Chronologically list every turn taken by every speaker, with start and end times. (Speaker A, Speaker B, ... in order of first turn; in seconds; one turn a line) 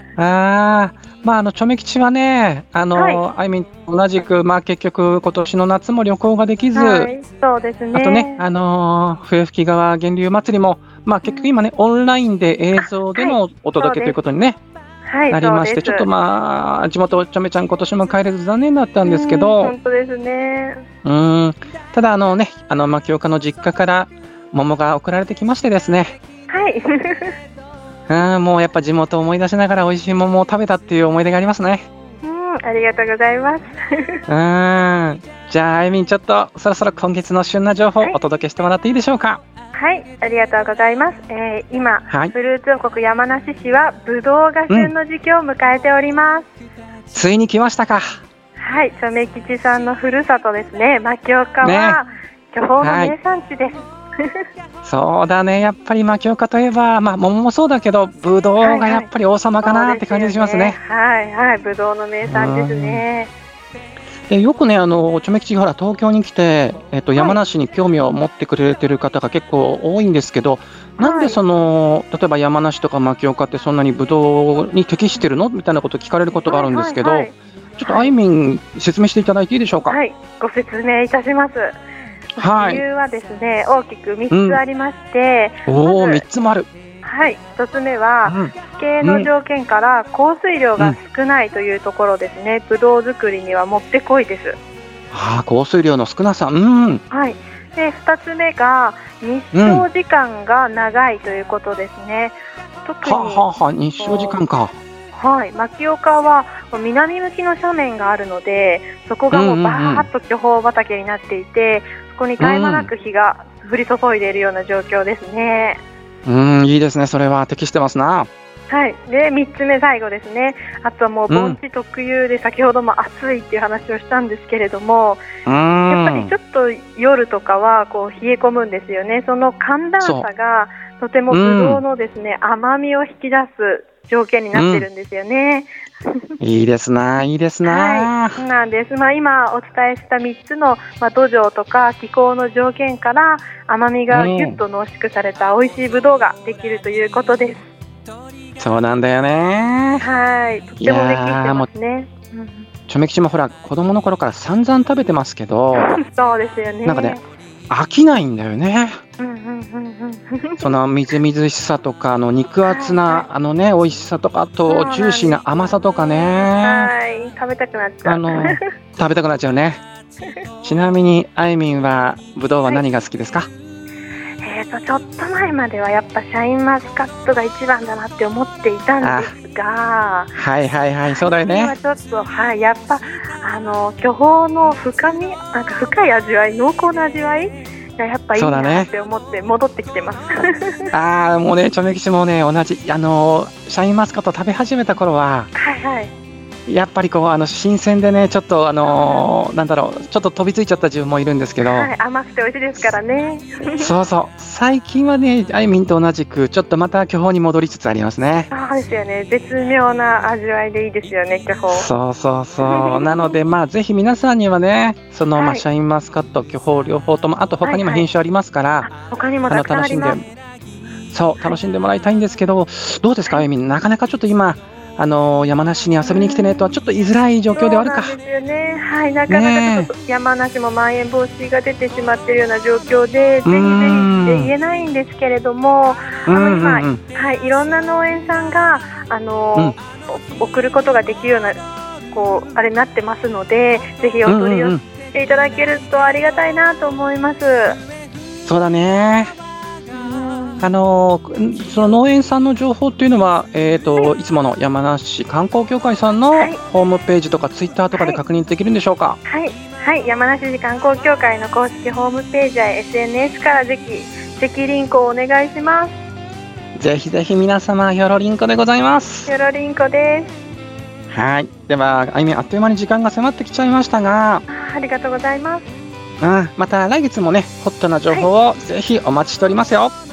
Speaker A: 0.1-7.1
Speaker B: 2.9-3.2
Speaker B: 6.7-8.4
Speaker A: 7.9-14.6
Speaker B: 12.8-14.2
Speaker B: 15.1-16.1
Speaker A: 15.3-19.7
Speaker B: 19.0-20.8
Speaker A: 21.0-26.2
Speaker B: 26.5-27.4
Speaker A: 28.1-31.9
Speaker B: 32.2-34.2
Speaker A: 34.3-39.4
Speaker B: 39.7-46.5
Speaker A: 42.1-42.3
Speaker A: 47.1-48.1
Speaker B: 48.6-54.4
Speaker A: 51.6-52.0
Speaker A: 52.8-53.1
Speaker A: 54.8-60.8
Speaker B: 58.6-59.1
Speaker B: 59.6-63.3
Speaker A: 62.3-63.0
Speaker A: 64.3-80.0
Speaker B: 71.0-71.4
Speaker B: 76.5-78.1
Speaker B: 79.9-81.8
Speaker B: 82.3-86.2
Speaker A: 82.4-82.8
Speaker A: 84.3-84.6
Speaker A: 85.7-86.7
Speaker B: 87.0-94.6
Speaker A: 88.2-89.3
Speaker A: 95.1-97.0
Speaker B: 97.1-103.4
Speaker A: 99.5-99.8
Speaker A: 103.0-104.8
Speaker B: 104.0-104.4
Speaker B: 105.1-115.8
Speaker A: 109.3-110.1
Speaker A: 112.4-112.9
Speaker A: 116.2-118.3
Speaker B: 118.7-125.2
Speaker A: 121.3-121.6
Speaker A: 125.5-126.3
Speaker B: 125.9-136.3
Speaker A: 130.0-130.3
Speaker A: 131.3-131.8
Speaker A: 134.5-134.8
Speaker A: 136.4-138.4
Speaker B: 137.6-147.7
Speaker A: 144.1-144.6
Speaker A: 148.6-150.0
Speaker B: 150.0-152.7
Speaker A: 150.8-151.7
Speaker A: 152.9-155.9
Speaker B: 155.7-157.2
Speaker A: 156.8-157.2
Speaker A: 157.7-159.0
Speaker B: 159.2-160.7
Speaker A: 160.6-166.9
Speaker B: 162.7-163.2
Speaker B: 164.7-168.7
Speaker A: 168.0-169.8
Speaker A: 170.6-173.5
Speaker B: 174.4-180.3
Speaker A: 179.0-179.3
Speaker A: 180.3-181.7
Speaker B: 181.2-190.9
Speaker A: 188.3-188.9
Speaker A: 190.9-195.5
Speaker B: 195.5-196.1
Speaker A: 196.7-201.9
Speaker B: 198.8-199.2
Speaker B: 201.6-203.9
Speaker A: 203.8-208.5
Speaker B: 208.5-211.9
Speaker A: 211.7-218.9
Speaker B: 212.6-213.2
Speaker B: 215.3-215.6
Speaker B: 217.6-218.1
Speaker B: 218.8-220.2
Speaker A: 219.5-220.2
Speaker A: 221.1-228.2
Speaker B: 226.1-226.4
Speaker B: 227.5-247.8
Speaker A: 229.3-229.9
Speaker A: 233.4-234.5
Speaker A: 236.3-237.0
Speaker A: 244.2-244.8
Speaker A: 248.4-249.3
Speaker B: 249.9-250.6
Speaker A: 250.6-259.2
Speaker B: 257.9-258.2
Speaker B: 259.2-265.9
Speaker A: 266.8-269.3
Speaker B: 269.3-270.3
Speaker A: 271.1-274.4
Speaker B: 274.5-275.7
Speaker A: 276.2-279.9